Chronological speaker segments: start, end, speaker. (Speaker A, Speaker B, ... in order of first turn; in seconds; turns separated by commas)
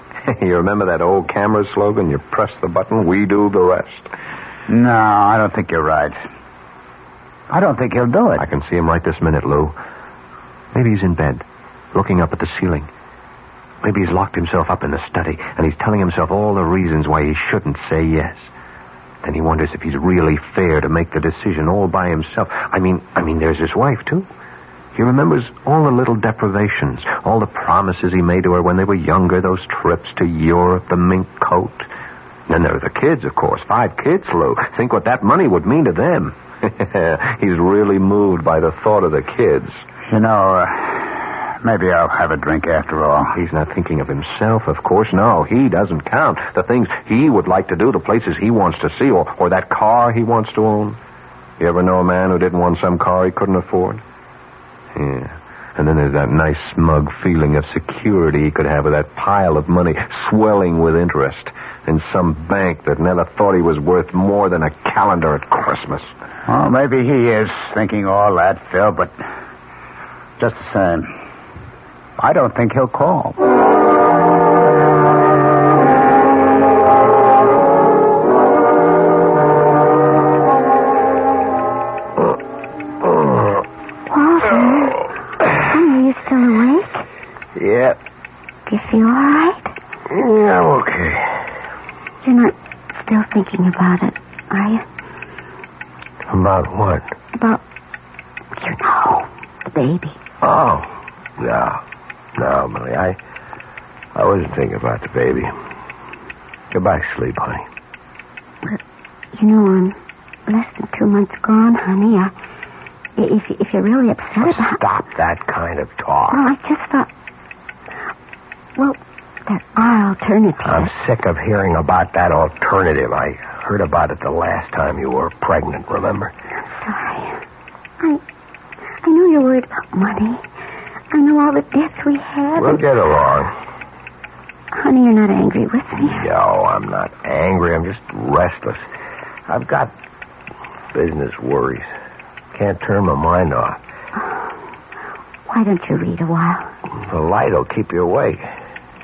Speaker A: 0.2-4.1, Speaker B: 4.7-6.2, Speaker B: 7.5-8.4, Speaker A: 8.4-9.8, Speaker A: 10.7-12.9, Speaker A: 13.8-18.5, Speaker A: 19.2-24.3, Speaker A: 24.9-31.9, Speaker A: 32.5-39.8, Speaker B: 40.1-43.3, Speaker A: 43.3-51.0, Speaker A: 51.6-54.0, Speaker A: 54.9-66.1, Speaker B: 66.5-69.2, Speaker B: 70.4-71.1, Speaker B: 72.2-73.4, Speaker C: 83.1-83.3, Speaker D: 84.1-85.1, Speaker D: 85.7-87.0, Speaker C: 87.6-88.0, Speaker D: 88.7-89.7, Speaker C: 90.1-91.4, Speaker D: 92.2-94.8, Speaker C: 96.3-97.1, Speaker D: 97.4-97.6, Speaker D: 98.6-100.2, Speaker C: 100.4-101.8, Speaker C: 102.4-103.2, Speaker C: 104.2-105.5, Speaker C: 106.7-107.7, Speaker D: 109.3-110.0, Speaker D: 110.5-112.3, Speaker D: 113.2-114.8, Speaker C: 114.4-116.4, Speaker D: 116.3-117.1, Speaker D: 118.8-120.9, Speaker C: 120.6-126.3, Speaker D: 126.8-127.4, Speaker D: 129.0-130.4, Speaker D: 131.1-132.8, Speaker C: 132.6-133.5, Speaker D: 134.7-136.2, Speaker C: 136.0-138.8, Speaker C: 139.5-139.9, Speaker C: 140.9-141.9, Speaker C: 142.5-143.8, Speaker D: 145.5-146.7, Speaker C: 146.9-148.5